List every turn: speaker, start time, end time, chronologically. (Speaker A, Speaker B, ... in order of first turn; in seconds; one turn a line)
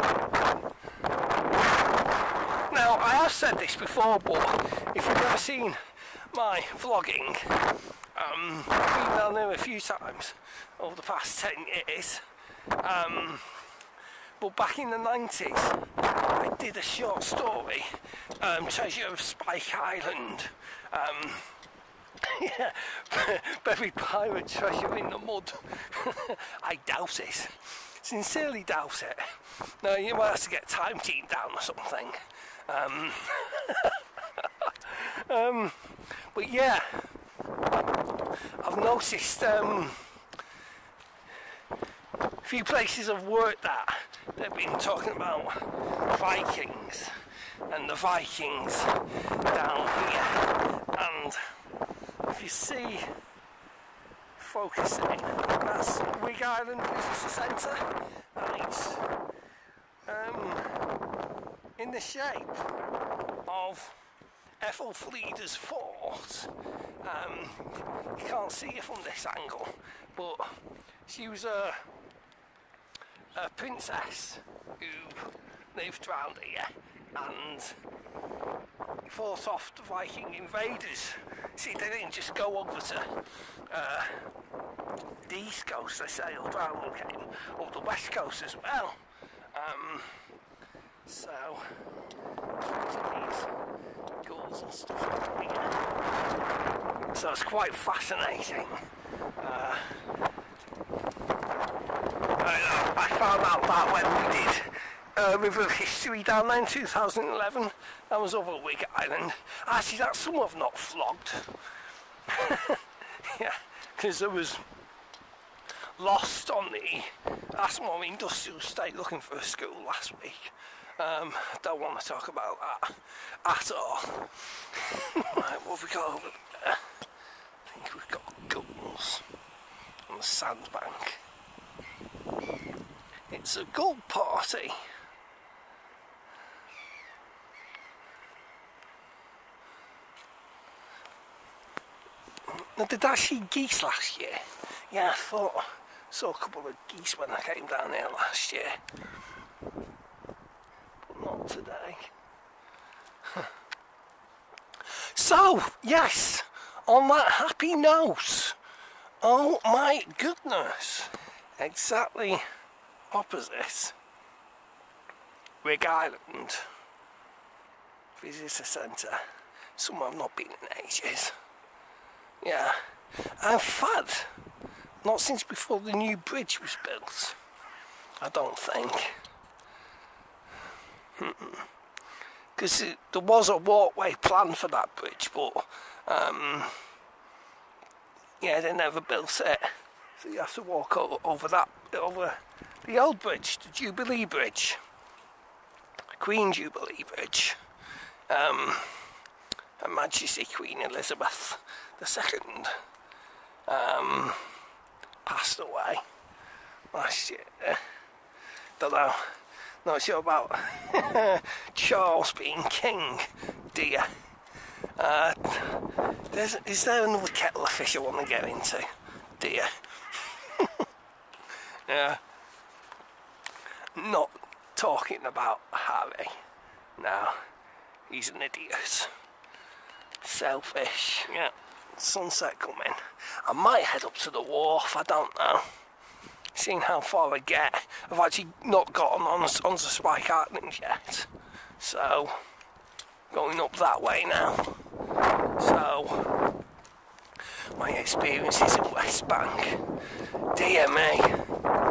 Speaker A: 2.7-13.6
Speaker A: 14.4-21.6
Speaker A: 22.2-37.1
Speaker A: 38.6-40.1
Speaker A: 42.4-47.2
Speaker A: 47.7-51.5
Speaker A: 52.2-53.1
Speaker A: 54.4-59.1
Speaker A: 60.1-60.9
Speaker A: 61.8-62.7
Speaker A: 63.5-64.0
Speaker A: 64.6-71.8
Speaker A: 73.3-77.8
Speaker A: 79.1-84.3
Speaker A: 85.2-90.3
Speaker A: 91.0-91.8
Speaker A: 92.7-93.5
Speaker A: 94.2-95.9
Speaker A: 97.1-100.0
Speaker A: 102.4-111.5
Speaker A: 112.3-114.7
Speaker A: 116.0-126.9
Speaker A: 127.7-129.3
Speaker A: 130.1-131.2
Speaker A: 133.3-134.9
Speaker A: 142.5-148.8
Speaker A: 151.0-152.1
Speaker A: 154.9-158.6
Speaker A: 159.2-162.4
Speaker A: 163.1-163.9
Speaker A: 165.6-166.7
Speaker A: 168.2-169.2
Speaker A: 169.8-171.4
Speaker A: 172.4-174.3
Speaker A: 175.0-177.4
Speaker A: 178.2-179.2
Speaker A: 181.2-181.7
Speaker A: 182.6-186.8
Speaker A: 188.4-194.8
Speaker A: 196.2-197.6
Speaker A: 198.3-199.1
Speaker A: 199.8-202.8
Speaker A: 203.7-204.6
Speaker A: 205.2-206.1
Speaker A: 206.9-207.8
Speaker A: 208.8-214.2
Speaker A: 214.9-220.9
Speaker A: 221.7-222.2
Speaker A: 223.9-226.4
Speaker A: 227.0-227.4
Speaker A: 228.1-229.1
Speaker A: 230.2-235.7
Speaker A: 236.5-242.4
Speaker A: 243.3-244.8
Speaker A: 245.6-246.3
Speaker A: 247.7-249.8
Speaker A: 250.5-251.4